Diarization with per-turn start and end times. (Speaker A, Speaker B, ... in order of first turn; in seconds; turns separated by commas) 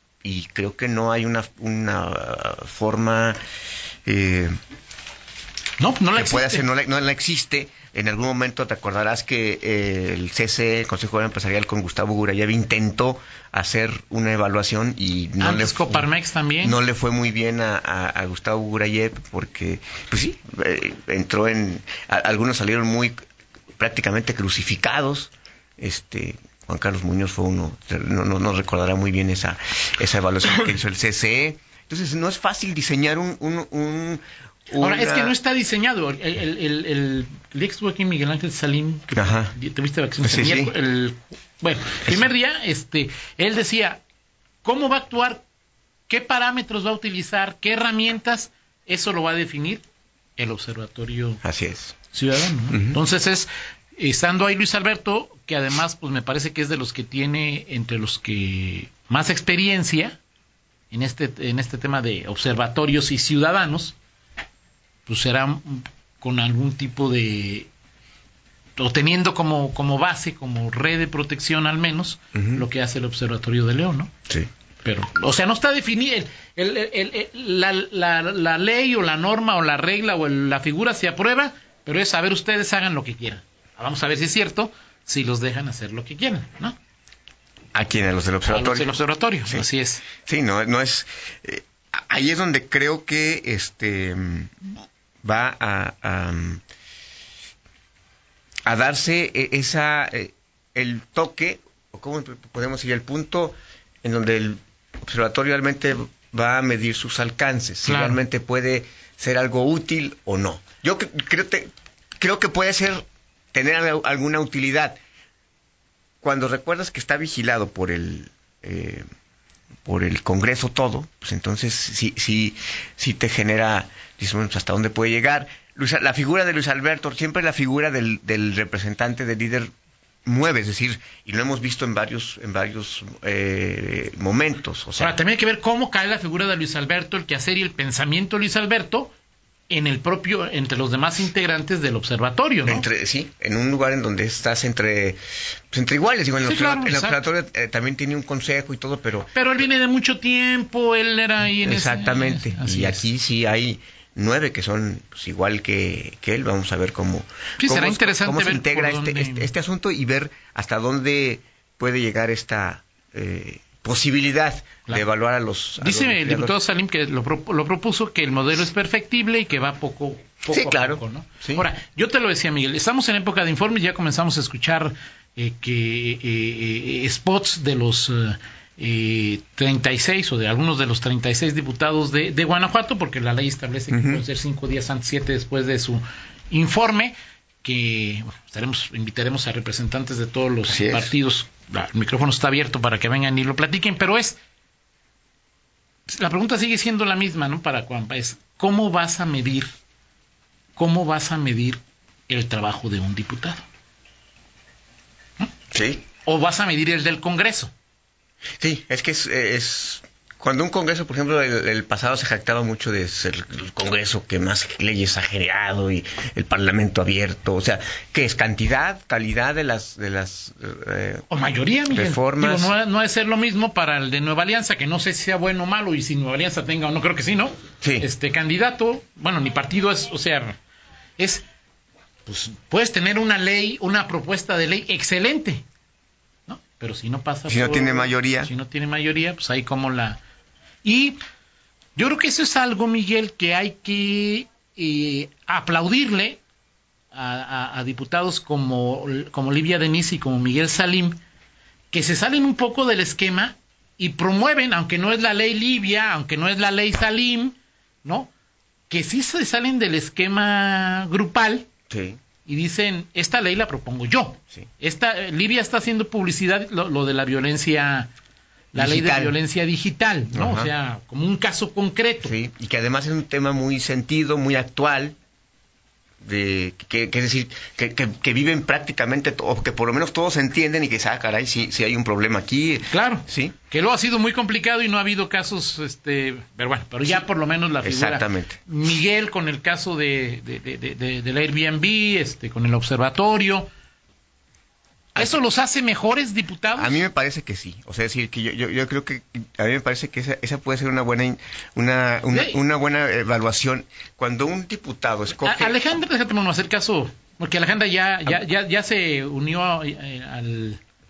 Speaker A: 0.2-3.4, Speaker A: 4.1-4.5, Speaker B: 5.8-6.6, Speaker A: 6.1-16.1, Speaker B: 15.4-16.8, Speaker A: 16.6-23.2, Speaker A: 23.8-35.4, Speaker B: 34.8-44.0, Speaker A: 39.1-39.5, Speaker A: 40.2-40.7, Speaker B: 44.6-45.4, Speaker B: 46.1-49.8, Speaker B: 50.4-51.4, Speaker A: 51.4-52.0, Speaker B: 52.1-60.2, Speaker A: 52.7-53.0, Speaker B: 60.9-64.0, Speaker B: 65.1-67.7, Speaker B: 68.8-74.1, Speaker A: 72.3-72.6, Speaker B: 74.8-86.8, Speaker A: 87.7-88.9, Speaker B: 88.5-90.0, Speaker A: 90.2-96.6, Speaker A: 98.7-115.0, Speaker B: 107.8-108.2, Speaker A: 116.2-119.0, Speaker A: 119.8-129.7, Speaker A: 130.2-135.2, Speaker B: 135.0-139.1, Speaker B: 139.7-142.9, Speaker A: 142.6-149.3, Speaker B: 146.4-147.2, Speaker B: 149.3-153.1, Speaker A: 151.6-166.6, Speaker B: 157.6-159.5, Speaker B: 165.8-194.4, Speaker A: 170.5-171.7, Speaker A: 183.9-184.2, Speaker A: 190.7-191.1, Speaker B: 196.1-199.7, Speaker B: 200.8-203.6, Speaker A: 205.7-206.1, Speaker B: 206.2-207.7, Speaker A: 208.6-221.2, Speaker B: 221.3-230.6, Speaker A: 221.9-222.7, Speaker A: 227.8-228.1, Speaker B: 231.2-231.4, Speaker B: 232.2-235.6, Speaker B: 236.5-240.2, Speaker A: 237.5-238.5, Speaker B: 240.8-241.2, Speaker B: 241.9-246.4, Speaker B: 247.1-251.2, Speaker B: 251.9-258.3, Speaker B: 258.9-261.7, Speaker A: 261.9-262.2, Speaker B: 262.4-268.1, Speaker B: 268.7-272.3, Speaker A: 268.7-269.4, Speaker A: 270.3-270.7, Speaker A: 272.2-275.2, Speaker A: 276.2-283.6, Speaker B: 282.9-293.7, Speaker A: 287.8-288.6, Speaker A: 295.1-295.4, Speaker B: 295.2-297.0, Speaker A: 296.7-305.8, Speaker B: 302.3-302.6, Speaker B: 305.4-310.8